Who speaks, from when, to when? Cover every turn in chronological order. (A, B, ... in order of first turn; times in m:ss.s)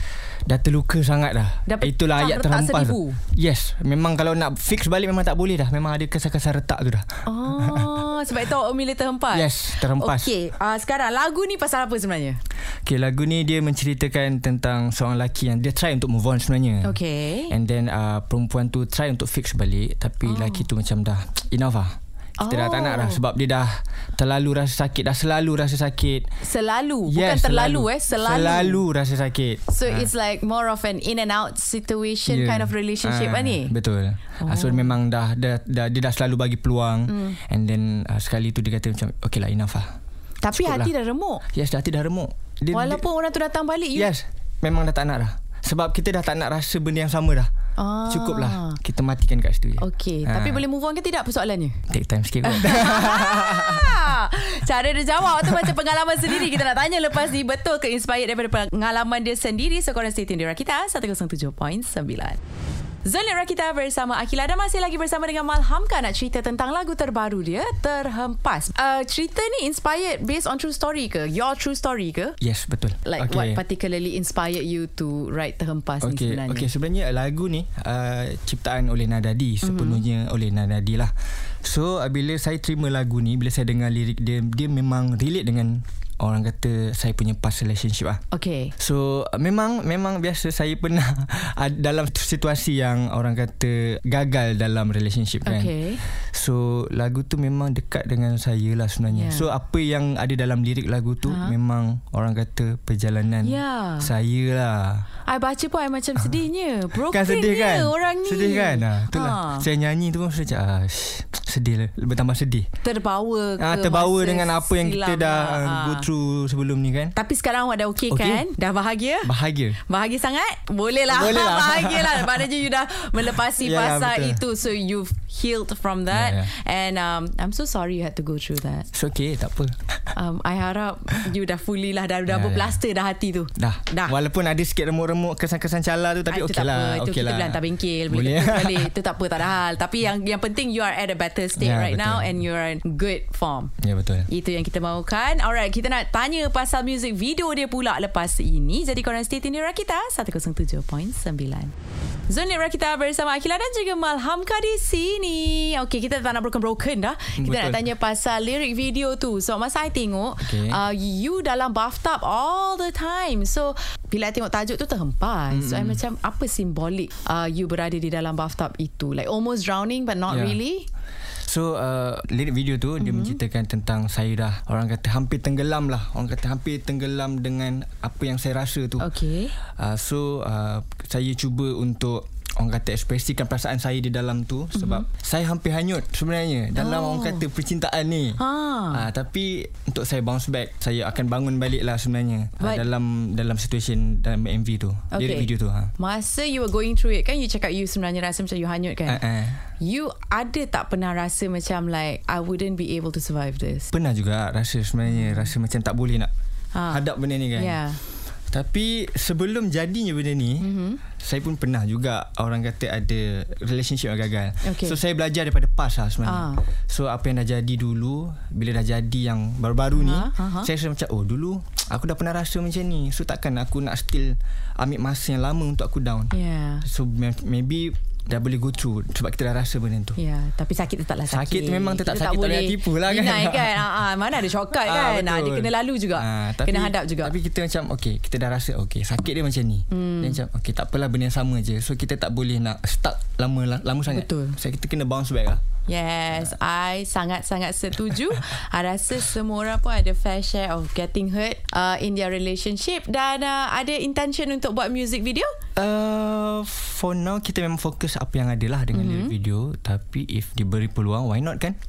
0:00.4-0:07.9 A
0:01.6-0:03.2 B
0:07.2-0:12.4 B
0:09.3-0:10.3 A
0:12.8-0:17.0 A
0:16.8-0:17.6 B
0:17.5-0:26.3 A
0:20.2-0:20.7 B
0:22.4-0:23.2 B
0:26.4-0:28.8 B
0:27.0-0:30.1 A
0:29.7-0:33.7 B
0:32.2-0:40.0 A
0:34.4-0:34.9 B
0:37.1-0:37.4 B
0:40.4-0:41.4 B
0:40.5-0:40.9 A
0:41.5-0:43.0 A
0:42.7-0:44.1 B
0:43.9-0:47.5 A
0:47.8-0:48.8 B
0:48.1-0:50.6 A
0:49.8-0:51.8 B
0:51.9-0:54.0 A
0:52.4-1:02.4 B
1:03.0-1:12.4 B
1:12.4-1:13.6 A
1:13.0-1:16.7 B
1:16.0-1:28.2 A
1:19.6-1:20.0 B
1:28.3-1:28.7 B
1:28.8-1:45.1 A
1:35.4-1:36.0 B
1:39.1-1:39.5 B
1:41.2-1:41.5 B
1:43.4-1:44.1 B
1:45.2-1:49.7 B
1:47.0-1:52.7 A
1:52.8-1:56.1 B
1:53.6-1:57.1 A
1:57.1-2:08.9 B
1:58.1-1:58.5 A
1:59.2-1:59.8 A
2:01.1-2:02.4 A
2:03.6-2:04.4 A
2:06.1-2:06.5 A
2:08.9-2:09.8 A
2:10.1-2:14.1 B
2:12.3-2:12.8 A
2:13.6-2:18.9 A
2:16.3-2:23.7 B
2:21.5-2:22.4 A
2:23.8-2:24.3 A
2:24.3-2:31.7 B
2:32.3-2:50.9 B
2:37.4-2:37.8 A
2:40.4-2:40.8 A
2:45.5-2:46.0 A
2:50.3-2:50.6 A
2:51.4-2:59.1 A
2:53.0-2:53.4 B
2:59.0-2:59.5 B
2:59.8-3:08.4 A
3:04.7-3:05.0 B
3:06.7-3:07.4 B
3:08.4-3:09.0 B
3:08.9-3:15.9 A
3:12.6-3:12.8 B
3:15.1-3:19.2 B
3:19.0-3:19.6 A
3:19.8-3:23.9 B
3:23.9-3:26.3 A
3:25.1-3:25.5 B
3:26.7-3:28.0 B
3:26.9-3:27.8 A
3:28.5-3:30.7 A
3:30.6-3:31.0 B
3:31.2-3:50.2 A
3:34.6-3:35.0 B
3:36.2-3:36.6 B
3:39.9-3:40.7 B
3:46.3-3:46.8 B
3:50.2-3:57.3 B
3:51.3-3:53.9 A
3:54.7-4:05.6 A
3:59.9-4:00.4 B
4:04.1-4:04.6 B
4:05.9-4:15.5 B
4:15.8-4:21.8 A
4:18.9-4:19.3 B